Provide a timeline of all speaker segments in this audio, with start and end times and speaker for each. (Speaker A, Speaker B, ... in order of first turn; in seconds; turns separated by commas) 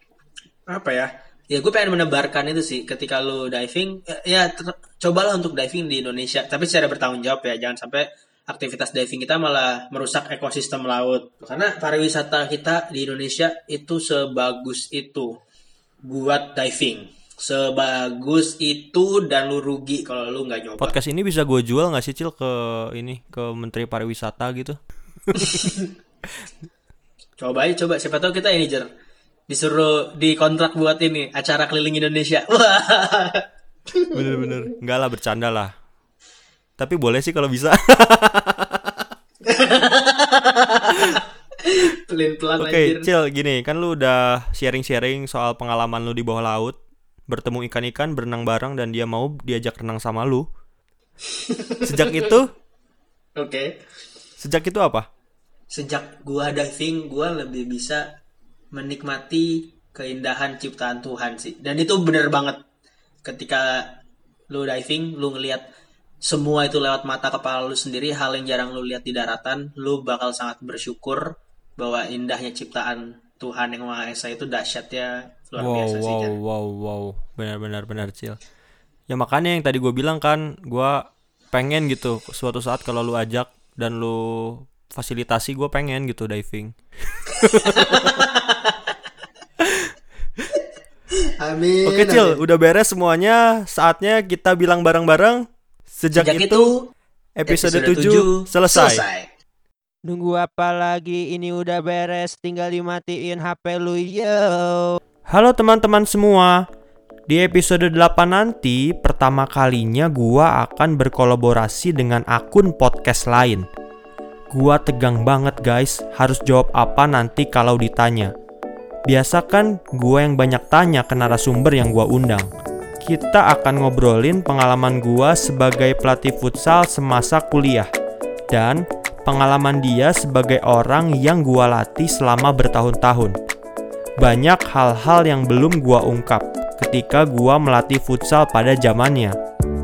Speaker A: 0.7-15.4, Speaker A: 16.1-21.0, Speaker B: 20.8-25.7, Speaker A: 25.4-25.9, Speaker A: 27.4-28.9, Speaker A: 29.5-34.5, Speaker B: 34.1-35.7, Speaker B: 36.8-39.1, Speaker A: 39.5-43.1, Speaker B: 42.6-46.8, Speaker B: 47.3-50.5, Speaker A: 51.2-52.3, Speaker B: 51.8-52.5, Speaker A: 53.4-53.7, Speaker B: 54.4-55.1, Speaker A: 55.7-58.1, Speaker A: 58.7-62.6, Speaker A: 63.2-63.9, Speaker A: 64.5-65.7, Speaker A: 66.2-76.3, Speaker B: 75.6-78.4, Speaker B: 79.1-88.2, Speaker A: 87.3-88.9, Speaker B: 89.6-89.9, Speaker A: 91.2-92.4, Speaker B: 91.8-95.4, Speaker B: 96.0-96.7, Speaker A: 96.2-96.9, Speaker B: 97.4-99.0, Speaker A: 97.5-99.3, Speaker C: 100.1-105.0, Speaker B: 105.3-106.7, Speaker B: 107.3-113.7, Speaker B: 114.5-118.3, Speaker B: 119.1-122.5, Speaker B: 123.0-127.9, Speaker B: 128.5-133.4, Speaker B: 134.2-139.4